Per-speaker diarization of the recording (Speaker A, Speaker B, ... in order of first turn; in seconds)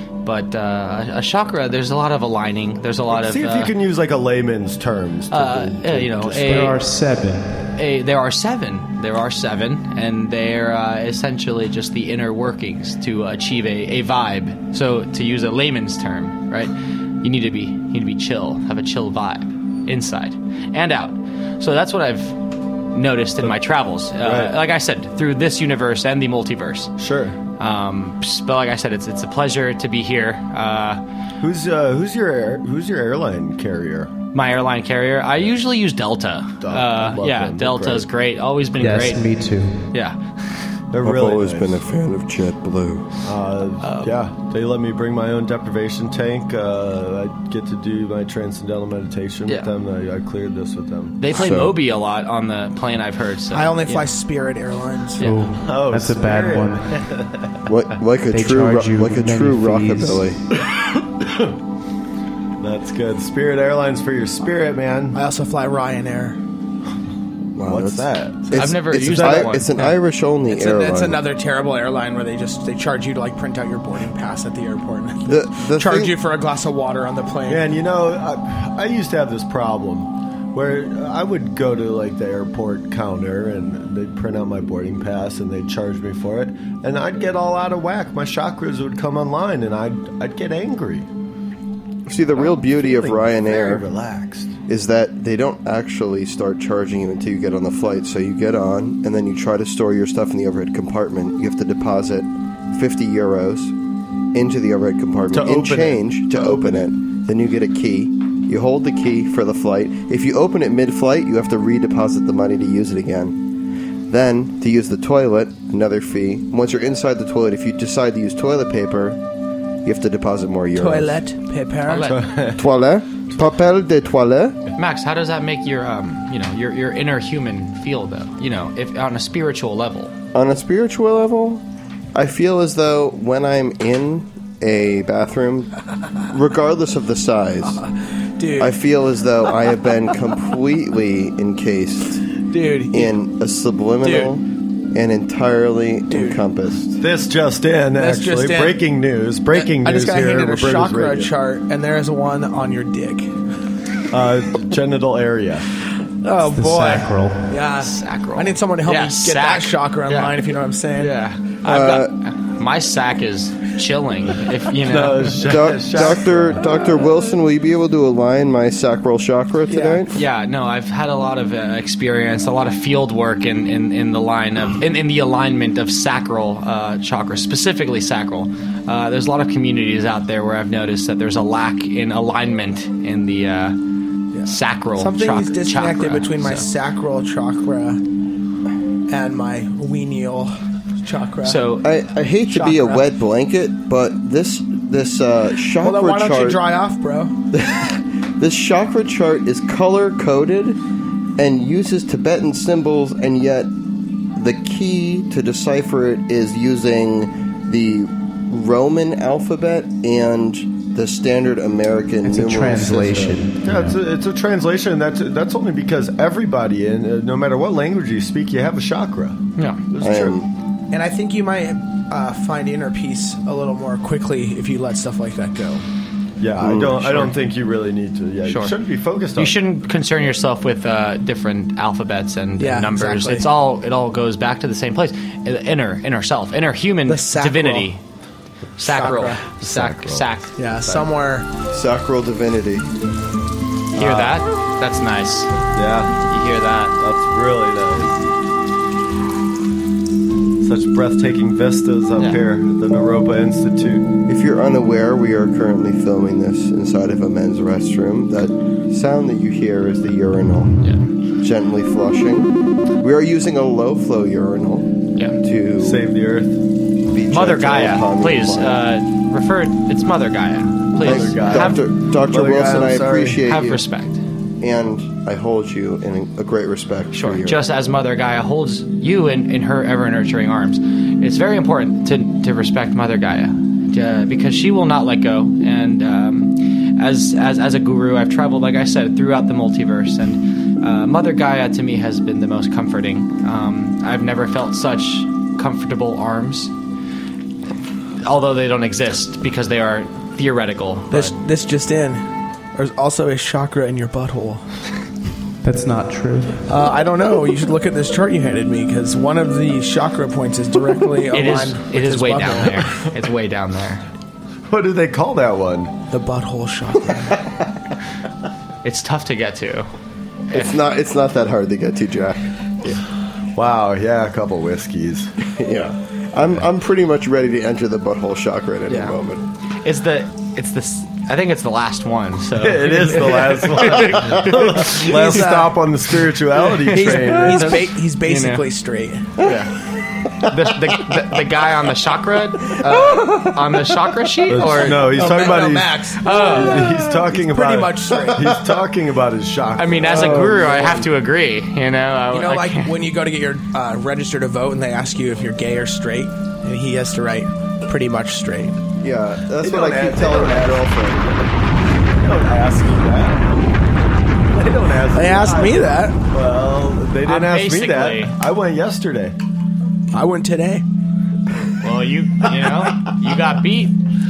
Speaker A: 0.2-3.7, 5.3-6.8, 7.8-22.4, 22.9-26.9, 27.6-31.0, 34.3-39.3, 39.9-40.2, 43.8-44.1, 49.5-49.7, 51.2-54.1, 55.2-55.5, 68.5-70.0, 121.9-122.3, 124.8-130.1, 157.7-160.4, 160.9-165.7, 170.1-183.8, 184.4-186.7, 191.4-191.8, 228.4-228.7, 229.3-238.0, 238.8-240.5, 243.9-245.5, 246.3-246.9, 267.3-271.8, 273.4-274.2, 277.1-296.7, 298.2-301.4, 311.3-314.0, 318.8-319.9, 320.5-320.8, 328.9-329.2, 329.8-338.7, 339.4-339.7, 340.4-345.5, 346.2-346.9, 349.8-352.9, 367.2-368.4, 371.8-373.9
Speaker B: 3.1-6.7, 24.2-24.5, 27.0-27.4, 31.4-34.1, 36.6-38.1, 40.9-41.8, 43.2-51.2, 55.5-57.6, 60.6-61.6, 62.6-65.2, 67.6-69.6, 77.5-91.1, 92.3-94.5, 105.3-106.8, 122.0-122.7, 147.0-151.3, 154.1-155.7, 164.8-166.7, 213.6-220.4, 226.4-229.6, 239.6-240.3, 243.9-244.4, 245.7-246.1, 247.0-248.2, 250.6-254.1, 265.8-266.6, 271.0-273.4, 314.7-315.9, 323.5-325.3, 332.6-337.8, 344.5-350.9, 359.6-361.0, 362.1-363.5, 364.5-369.3
Speaker C: 6.3-7.7, 38.8-39.9, 55.2-57.0, 58.3-60.4, 156.4-157.6, 212.2-214.0, 305.6-306.6
Speaker D: 41.0-43.1, 51.3-51.7, 57.7-60.4, 67.5-71.2, 75.2-76.1, 92.0-93.8, 94.7-103.7, 104.3-113.4, 114.1-119.2, 119.8-121.2, 122.5-124.6, 130.3-135.7, 136.3-137.8, 138.6-142.3, 142.9-147.0, 161.6-162.1, 165.4-170.1, 191.8-196.6, 197.5-200.8, 201.4-203.7, 204.3-213.5, 220.0-220.5, 226.6-227.3, 241.7-242.9, 254.3-260.8, 261.4-266.0, 267.1-268.9, 271.0-273.8, 274.6-277.6, 320.5-322.4, 325.5-329.4, 350.1-351.1, 359.0-361.3
Speaker E: 53.5-55.2, 65.1-66.4, 70.5-77.7, 120.7-122.1, 138.4-138.7, 142.4-143.2, 144.0-144.3, 146.1-146.4, 147.9-148.8, 149.5-153.3, 156.2-161.2, 169.7-170.1, 184.3-188.0, 189.1-191.6, 192.5-193.1, 195.8-197.3, 220.9-225.8, 232.6-233.5, 237.1-237.9, 238.8-239.4, 240.6-241.5, 301.1-304.6, 306.6-312.8, 316.1-317.4, 335.1-335.8, 336.9-339.4, 344.9-348.5, 352.3-358.8, 365.1-366.2, 370.1-370.8